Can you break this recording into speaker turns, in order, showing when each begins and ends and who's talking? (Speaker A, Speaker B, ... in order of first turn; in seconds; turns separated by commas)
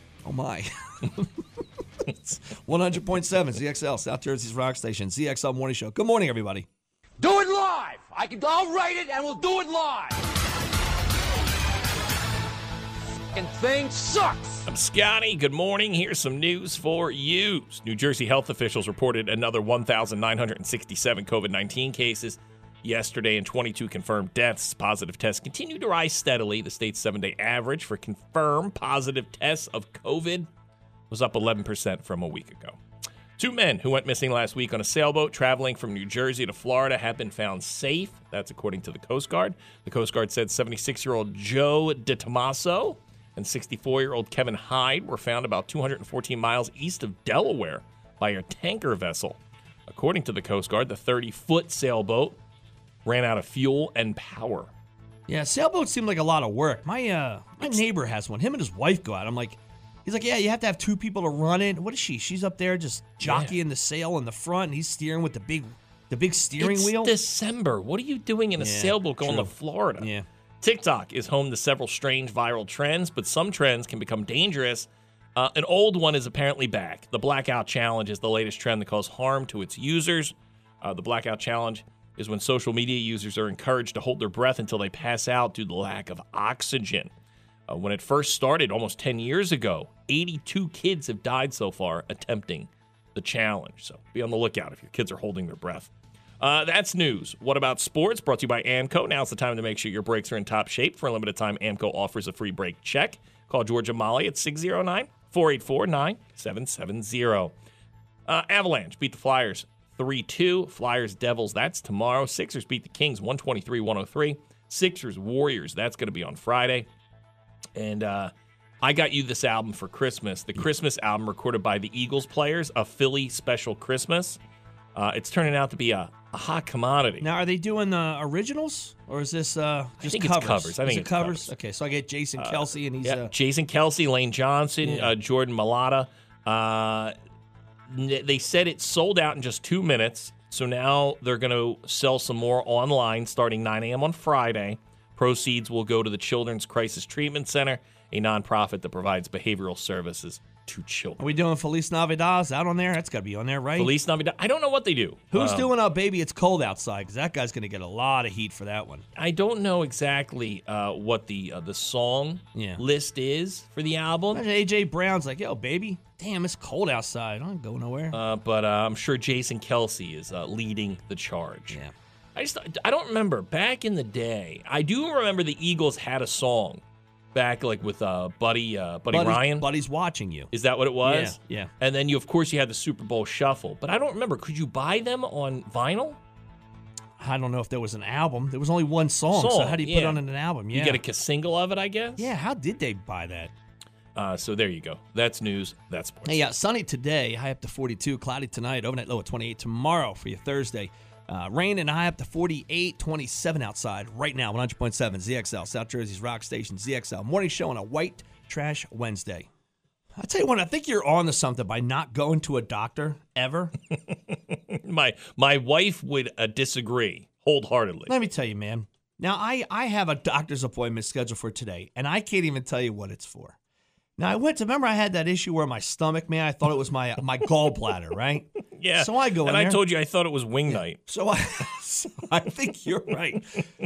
Speaker A: 0.2-1.4, Speaker A: 2.3-6.7, Speaker B: 7.2-10.2, Speaker B: 13.3-14.7, Speaker C: 14.7-30.5, Speaker C: 31.1-32.8, Speaker C: 33.4-52.4, Speaker C: 53.0-54.7, Speaker A: 55.3-67.2, Speaker C: 63.2-63.6, Speaker C: 66.6-70.1, Speaker A: 68.6-70.3, Speaker C: 70.6-87.1, Speaker C: 87.7-107.5, Speaker C: 108.3-116.9, Speaker C: 117.8-124.4, Speaker C: 125.0-127.3, Speaker A: 127.2-133.3, Speaker C: 130.0-131.5, Speaker C: 132.4-137.1, Speaker A: 134.8-135.1, Speaker C: 137.9-151.3, Speaker A: 151.2-153.9, Speaker C: 153.8-155.7, Speaker A: 155.3-159.1, Speaker C: 159.2-164.4, Speaker A: 162.5-162.8, Speaker A: 164.3-168.2, Speaker C: 168.1-171.8, Speaker C: 172.3-176.8, Speaker C: 177.3-179.7, Speaker A: 179.1-181.7, Speaker C: 180.5-186.2, Speaker A: 187.2-191.0, Speaker C: 189.3-192.3, Speaker A: 192.2-193.5, Speaker C: 194.2-196.4, Speaker A: 196.2-209.5, Speaker A: 210.2-213.7, Speaker C: 214.1-218.2, Speaker A: 218.1-223.6, Speaker A: 224.2-229.8, Speaker C: 228.7-231.0, Speaker A: 230.7-233.5